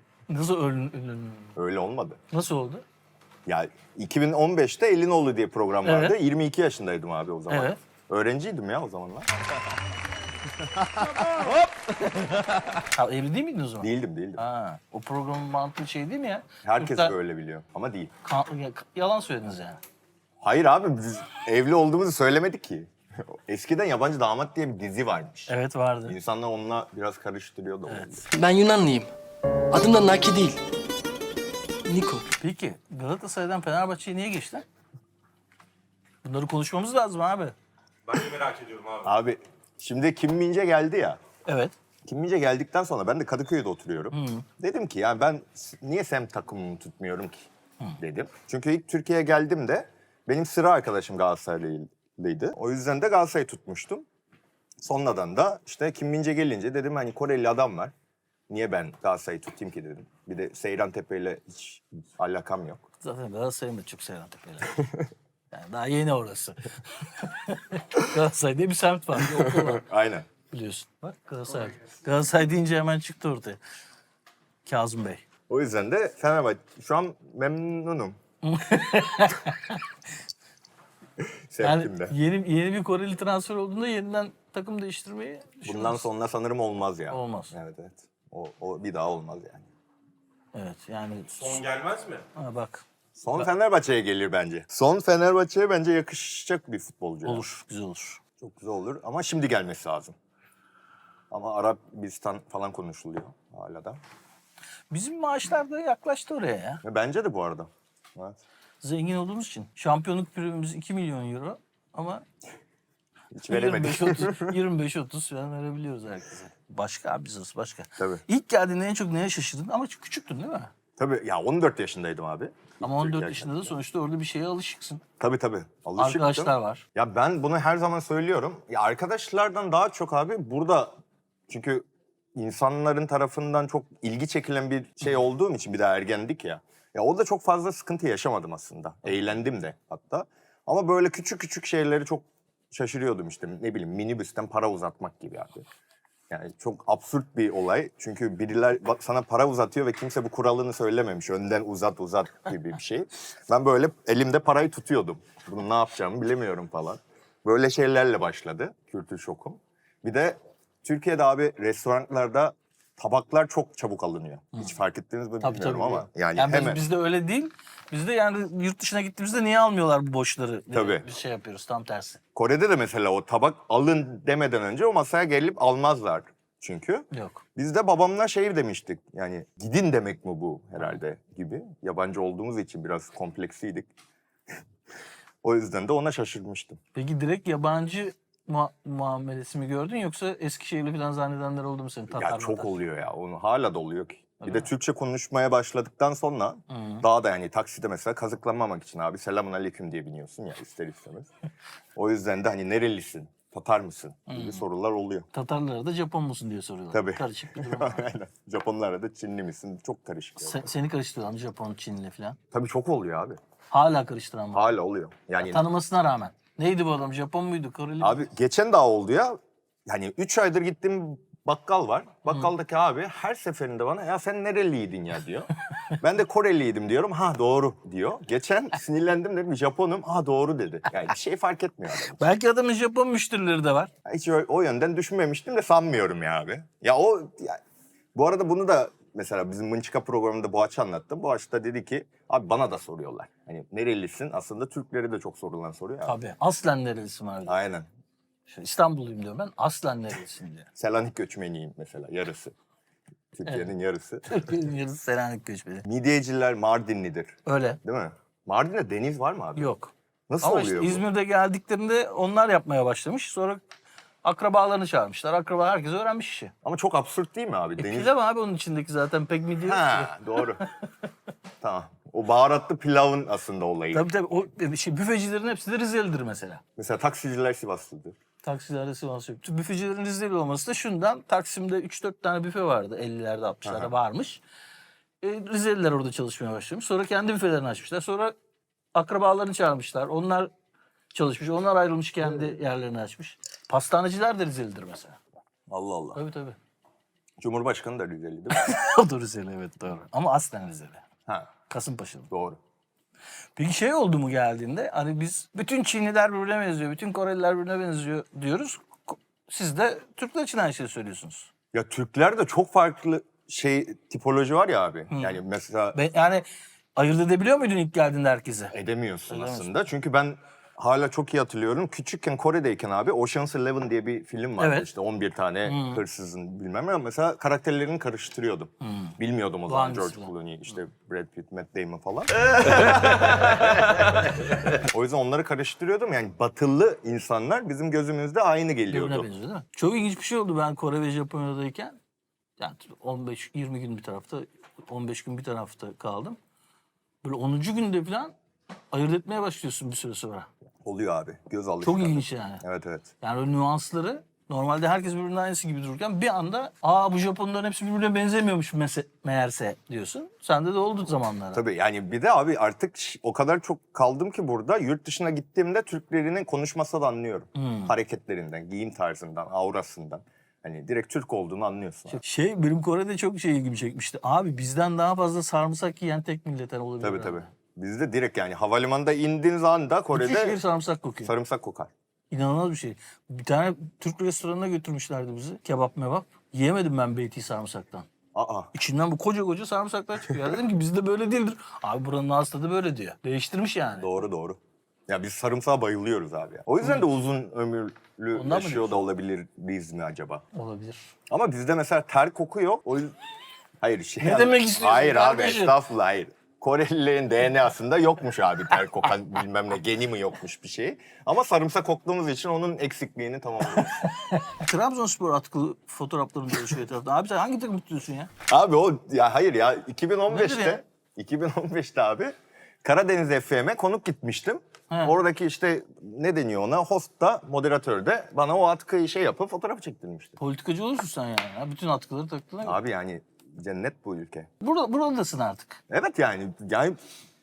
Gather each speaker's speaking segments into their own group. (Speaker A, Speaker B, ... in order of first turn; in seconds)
Speaker A: 0.3-1.5, 2.3-2.8, 5.8-6.2, 7.5-7.8, 12.8-17.1, 18.2-19.8, 25.5-26.2, 27.9-28.2, 32.4-34.6, 36.2-37.5, 41.5-41.7, 44.1-44.4, 63.0-64.8, 65.5-69.8, 70.5-73.6, 74.6-75.2, 78.4-79.8, 81.6-86.0, 87.1-87.5, 90.5-91.6, 92.3-93.5, 97.2-98.2, 104.9-106.8, 108.8-112.2, 113.4-120.7, 122.8-125.0, 126.0-126.8, 165.4-172.2, 177.1-177.4, 186.9-192.7, 194.4-194.7, 196.7-197.0, 204.3-204.6, 205.3-208.0, 210.4-212.4, 213.7-214.7, 215.4-218.3, 232.2-233.9, 246.0-247.6, 248.5-250.7, 254.2-255.8, 257.4-257.8, 259.6-263.6, 264.2-266.5, 267.8-270.6, 273.9-276.6, 278.4-284.4, 285.2-288.3, 288.9-290.5, 291.1-295.2, 296.1-296.6, 298.5-301.0, 301.7-302.3, 303.6-311.5, 315.1-315.4, 315.9-316.4, 316.9-318.7, 319.3-319.7, 324.6-324.9, 325.6-326.0, 328.8-329.1, 329.7-330.3, 332.7-333.0, 338.9-342.0, 342.6-346.4, 347.2-348.3, 348.9-350.5, 351.8-352.6, 353.2-361.6, 367.6-367.9, 372.1-377.5, 380.1-381.3, 382.3-388.1, 388.7-394.1, 398.3-399.0, 400.5-401.1, 404.2-405.8, 414.0-418.3, 420.3-420.8, 424.9-425.1, 430.4-432.8, 434.6-435.8
Speaker B: 1.5-2.2, 3.5-9.3, 13.8-14.4, 16.6-18.1, 20.4-25.5, 26.1-28.2, 39.0-41.2, 42.0-54.0, 54.8-57.9, 58.5-62.8, 64.7-65.0, 69.2-70.3, 75.5-78.2, 81.2-82.2, 85.6-89.7, 93.2-97.4, 98.4-100.1, 101.3-104.0, 106.8-108.4, 113.3-114.6, 121.0-123.7, 125.2-130.9, 131.5-145.7, 146.3-166.8, 170.7-171.1, 172.3-183.9, 185.4-186.8, 192.1-201.3, 201.9-205.3, 206.9-210.7, 212.5-213.4, 214.5-215.7, 218.0-232.3, 234.0-237.6, 238.1-246.2, 247.5-247.9, 250.8-252.5, 253.3-254.5, 255.8-259.7, 260.3-261.0, 266.6-268.1, 269.6-270.6, 271.6-274.1, 276.8-278.1, 283.6-283.9, 295.7-296.2, 297.4-298.7, 302.3-302.6, 311.7-316.0, 318.7-334.1, 334.7-339.3, 350.8-353.1, 361.5-372.2, 377.0-380.6, 381.2-381.9, 388.3-388.7, 394.0-400.4, 401.3-403.1, 403.8-414.1, 418.5-430.4, 432.6-434.5, 435.9-437.0
Speaker C: 28.3-29.1, 29.7-30.6, 31.8-32.2
Speaker D: 38.0-39.1, 91.4-92.2